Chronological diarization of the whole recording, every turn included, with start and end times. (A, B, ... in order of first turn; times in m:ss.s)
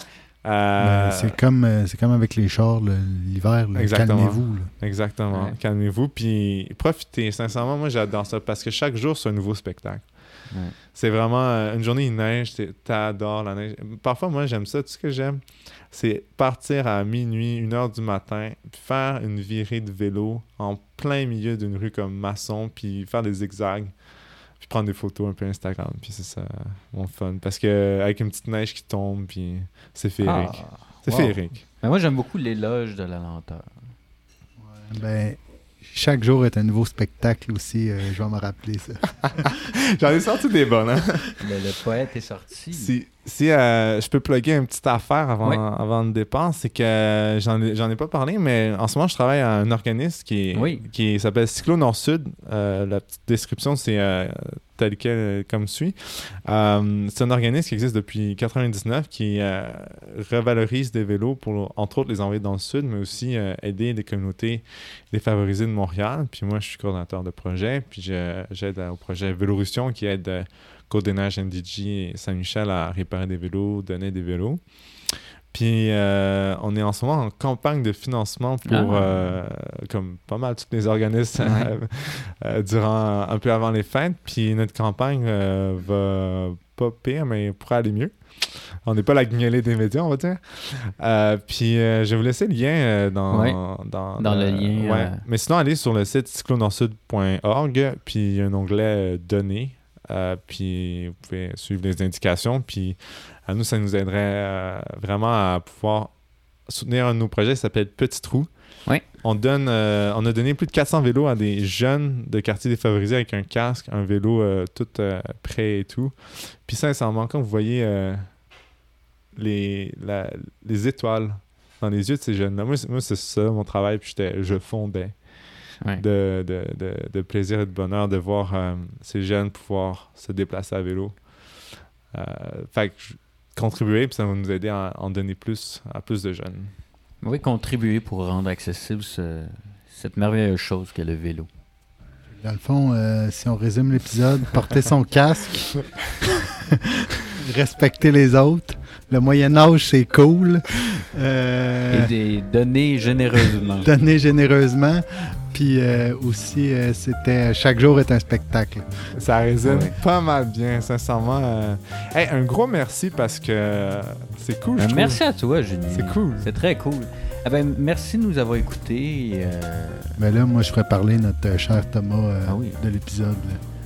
0:00.4-0:01.4 A
0:00.8-0:04.7 B
0:03.8-0:23.9 A
0:10.5-0:10.7 C
0:24.6-0:31.6 A
0:30.2-0:33.7 C
0:34.6-0:39.5 B
0:39.2-0:41.4 A
0:41.4-0:42.9 C
0:42.7-1:58.3 A
0:50.5-0:50.9 C
1:18.6-1:19.3 C
1:21.4-1:21.7 C
1:33.3-1:33.6 C
1:34.2-1:35.2 C
1:59.3-2:05.3 A
2:06.0-2:16.7 A
2:17.2-2:21.5 C
2:22.3-2:32.1 B
2:31.9-2:33.9 C
2:33.8-2:39.1 B
2:39.1-2:45.2 A
2:39.6-2:40.0 C
2:44.8-2:50.2 C
2:45.9-2:46.5 A
2:50.2-2:53.6 B
2:52.4-2:52.8 C